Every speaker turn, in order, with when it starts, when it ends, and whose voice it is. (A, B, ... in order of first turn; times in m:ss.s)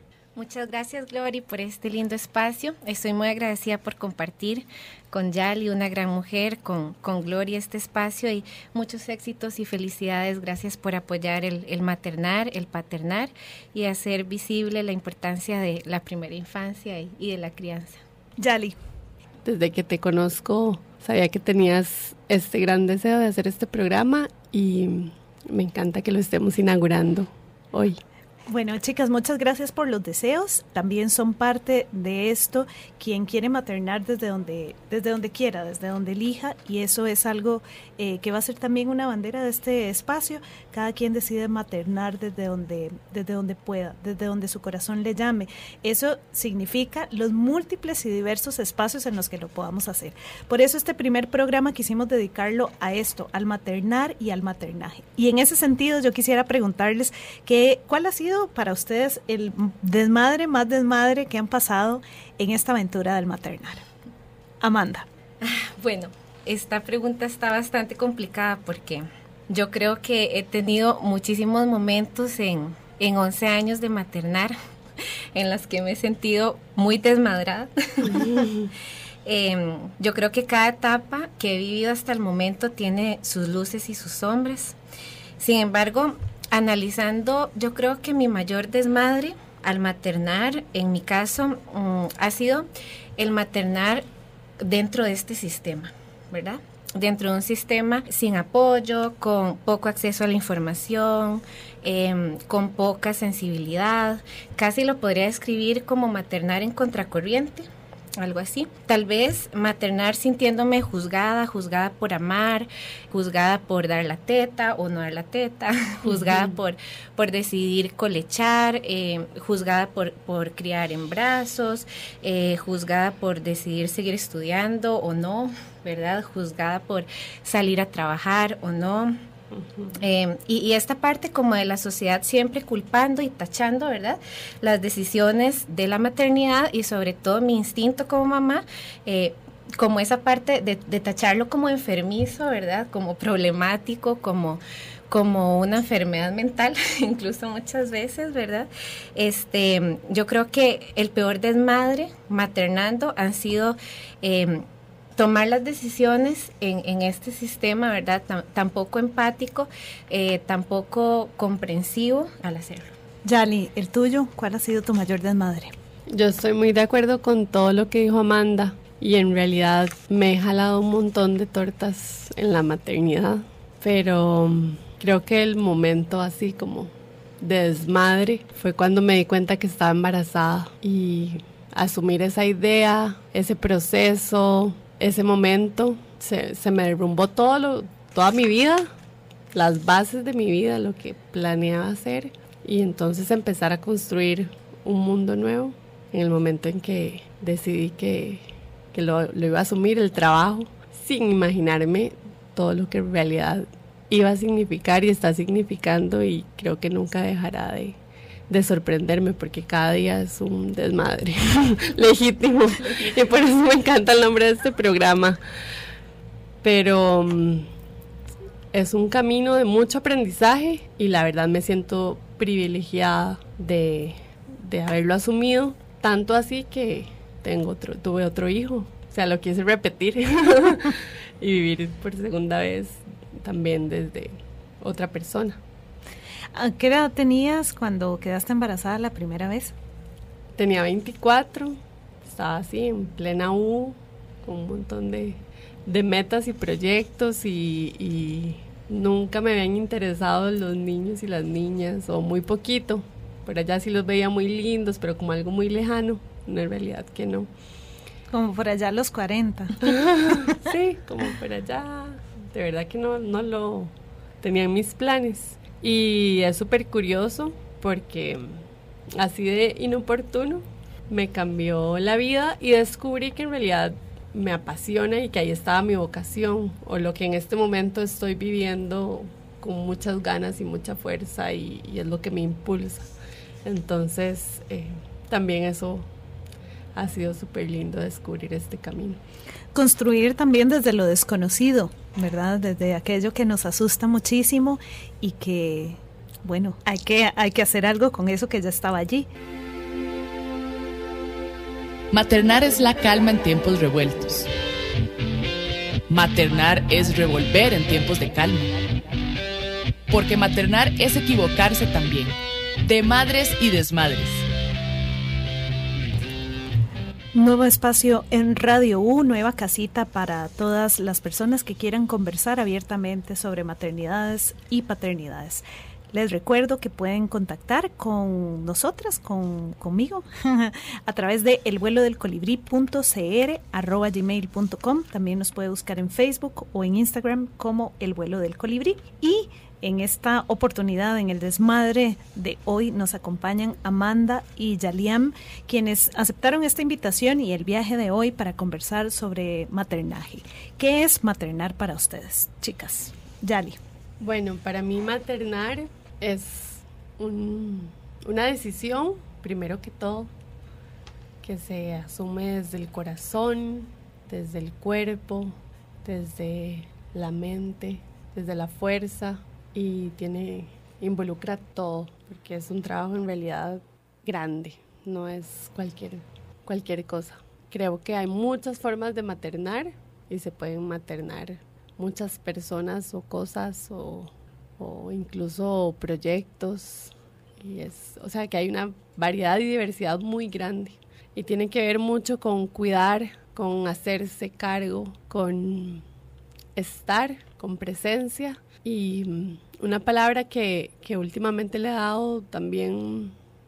0:00.3-0:18.0 A
0:18.4-0:18.8 B
0:19.4-0:28.0 C
0:28.5-1:03.8 B
1:04.6-1:05.1 B
1:05.4-1:18.5 A
1:18.1-1:18.7 C
1:19.2-1:24.8 A
1:25.4-1:34.0 A
1:34.6-1:47.7 A
1:48.2-2:09.2 A
1:56.1-1:56.5 C
2:09.5-2:09.9 C
2:10.0-2:42.9 A
2:43.2-2:45.7 B
2:46.1-3:08.9 C
3:09.5-3:35.4 C
3:36.6-3:37.7 C
3:38.7-3:55.6 C
3:56.5-3:59.7 B
4:00.6-4:17.5 C
4:18.3-4:20.7 B
4:19.8-4:43.1 C
4:43.6-4:46.1 C
4:46.9-4:49.2 C
4:49.7-4:59.3 B
5:02.1-5:04.5 D
5:06.1-5:08.7 D
5:10.1-5:14.4 D
5:17.3-5:53.8 B
5:54.2-6:00.3 C
6:01.4-6:36.0 C
6:36.8-6:43.3 C